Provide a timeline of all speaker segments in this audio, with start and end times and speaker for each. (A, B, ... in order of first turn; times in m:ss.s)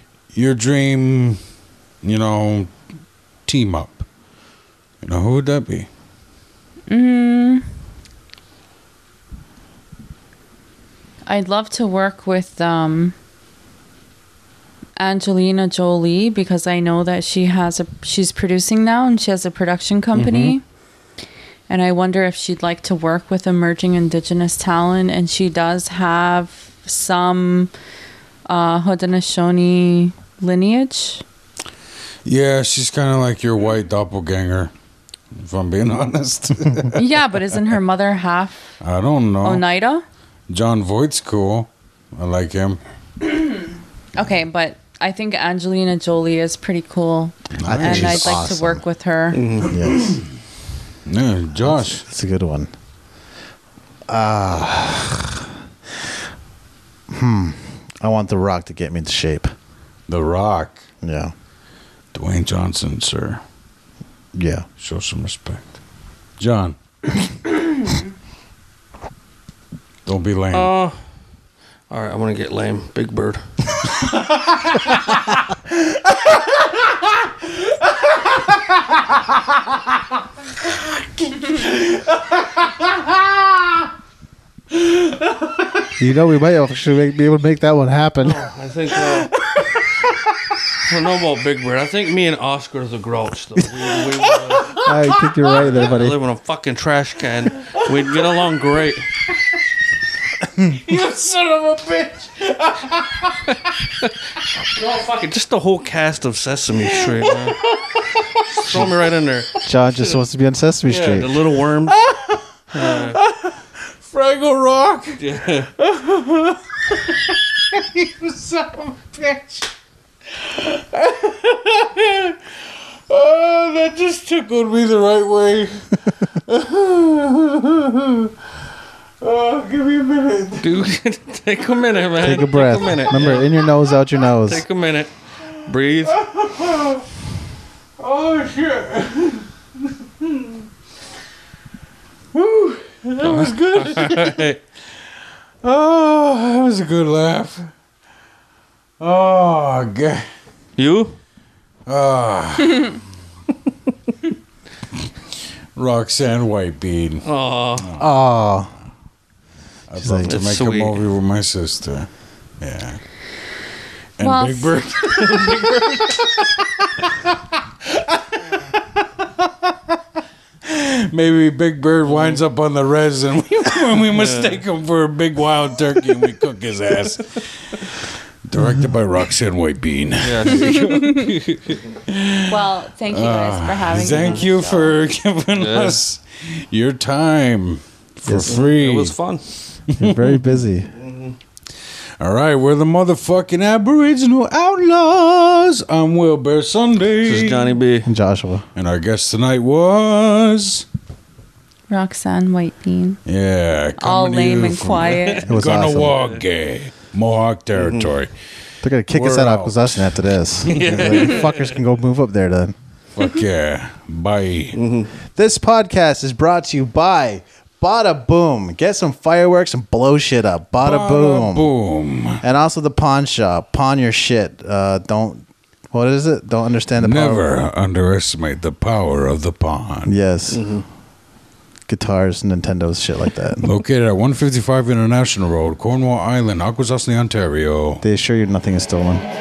0:00.3-0:01.4 A
0:02.0-0:02.7 A
0:03.4-0:04.1 A
0:05.0-0:05.9 A
0:06.9-0:07.7 B
0:11.3-0:13.2 B
0:15.0-0:20.6 B
0:20.2-0:20.6 A
0:21.7-0:27.7 B
0:28.5-0:31.2 B
0:32.2-0:34.7 A
0:35.3-0:37.0 A
0:36.9-0:38.8 B
0:38.8-0:39.6 A
0:39.4-0:40.0 B
0:40.5-0:42.8 A
0:43.4-0:49.5 B
0:47.6-0:48.4 A
0:47.6-0:48.8 C
0:49.3-0:49.7 D
0:49.6-0:50.2 C
0:49.9-0:50.2 A
0:51.0-0:52.0 A
0:51.6-0:52.7 C
0:54.1-0:56.2 C
0:57.1-0:59.5 C
1:00.1-1:00.8 A
1:01.0-1:01.3 C
1:02.1-1:03.4 A
1:04.4-1:04.7 C
1:04.8-1:05.8 A
1:06.4-1:06.8 A
1:10.1-1:10.7 A
1:10.5-1:11.0 D
1:11.9-1:13.4 D
1:14.0-1:15.0 A
1:15.9-1:17.1 A
1:20.7-1:23.4 A
1:24.7-1:25.9 A
1:26.0-1:28.4 C
1:28.2-1:29.3 D
1:28.9-1:30.1 A
1:30.9-1:34.8 D
1:33.8-1:35.9 A
1:34.8-1:36.2 C
1:35.5-1:39.0 D
1:37.6-1:38.5 A
1:40.6-1:43.5 A
1:44.7-1:47.6 D
1:46.8-1:48.9 A
1:48.6-1:49.5 D
1:49.6-1:51.4 C
1:50.9-1:52.0 D
1:51.9-1:55.2 A
1:52.7-1:53.2 D
1:55.2-1:55.7 D
1:55.8-1:59.7 A
2:00.3-2:08.3 A
2:09.2-2:10.8 A
2:10.6-2:13.6 D
2:12.2-2:14.6 C
2:14.4-2:15.1 D
2:15.6-2:16.2 D
2:16.0-2:17.1 A
2:18.0-2:20.5 A
2:22.3-2:24.6 A
2:23.2-2:24.6 D
2:25.6-2:27.7 A
2:29.0-2:30.3 A
2:30.8-2:31.2 D
2:31.9-2:33.0 A
2:35.8-2:37.3 A
2:37.2-2:37.9 D
2:37.8-2:38.1 A
2:38.0-2:38.7 C
2:39.9-2:42.1 A
2:40.0-2:40.4 C
2:40.2-2:41.0 D
2:42.6-2:43.0 A
2:44.2-2:47.1 A
2:44.2-2:45.1 B
2:47.8-2:49.7 A
2:50.6-2:57.9 A
2:52.0-2:52.4 D
2:54.1-2:54.6 D
2:58.4-3:09.2 A
3:00.2-3:01.8 D
3:00.8-3:01.3 B
3:02.5-3:04.6 B
3:04.1-3:04.5 D
3:05.5-3:06.0 D
3:08.3-3:08.6 C
3:08.5-3:09.4 D
3:09.9-3:10.4 A
3:10.0-3:10.9 C
3:11.0-3:11.3 D
3:12.2-3:17.8 A
3:17.2-3:18.1 D
3:18.0-3:18.7 C
3:18.8-3:20.8 A
3:21.9-3:23.2 B
3:23.3-3:28.3 A
3:24.0-3:25.5 B
3:25.5-3:26.2 C
3:26.1-3:26.4 D
3:27.8-3:28.1 D
3:28.8-3:32.7 C
3:29.1-3:31.5 A
3:30.7-3:31.8 D
3:33.2-3:34.8 A
3:34.7-3:35.1 D
3:35.4-3:41.7 C
3:40.8-3:42.4 A
3:42.4-3:47.4 C
3:47.0-3:50.1 A
3:50.1-3:50.6 C
3:50.5-3:50.8 D
3:51.9-3:53.6 C
3:53.6-3:58.0 A
3:58.0-3:59.2 C